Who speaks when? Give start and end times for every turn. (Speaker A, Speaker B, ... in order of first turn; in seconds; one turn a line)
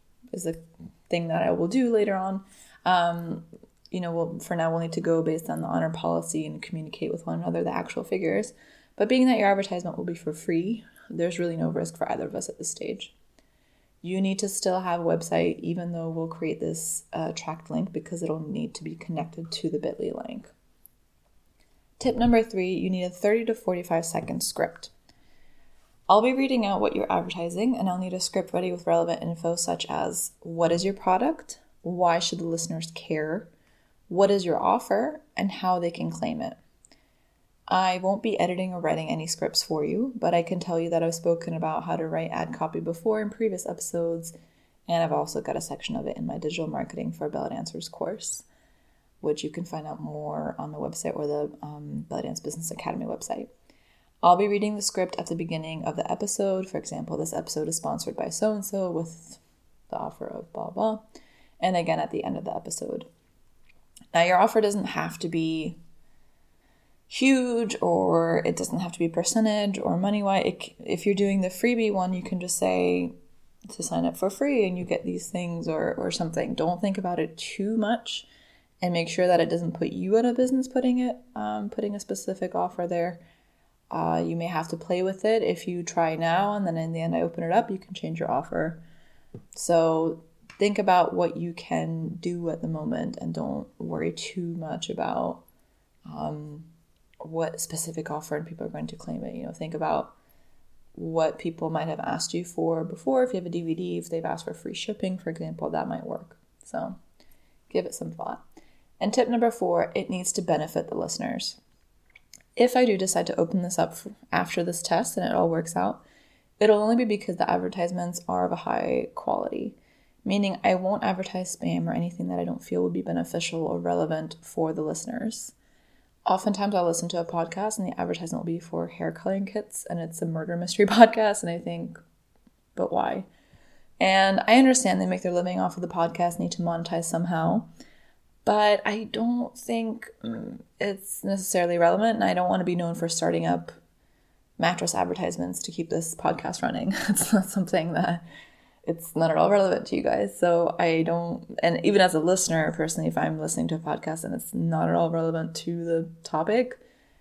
Speaker A: 0.3-13.1
Speaker A: 14.0-20.5
Speaker A: 22.0-24.9
Speaker A: 26.1-33.5
Speaker A: 34.1-36.6
Speaker A: 37.7-44.3
Speaker A: 44.9-48.5
Speaker A: 49.2-53.5
Speaker A: 54.2-61.0
Speaker A: 61.6-63.1
Speaker A: 64.1-65.8
Speaker A: 67.1-73.1
Speaker A: 73.7-78.3
Speaker A: 78.8-83.2
Speaker A: 83.9-88.8
Speaker A: 89.5-95.4
Speaker A: 96.0-96.7
Speaker A: 97.2-100.1
Speaker A: 100.9-107.0
Speaker A: 107.7-108.4
Speaker A: 109.0-111.6
Speaker A: 112.5-116.0
Speaker A: 116.6-125.5
Speaker A: 126.2-132.0
Speaker A: 132.7-133.3
Speaker A: 134.0-137.7
Speaker A: 138.4-143.8
Speaker A: 144.6-148.2
Speaker A: 148.8-156.8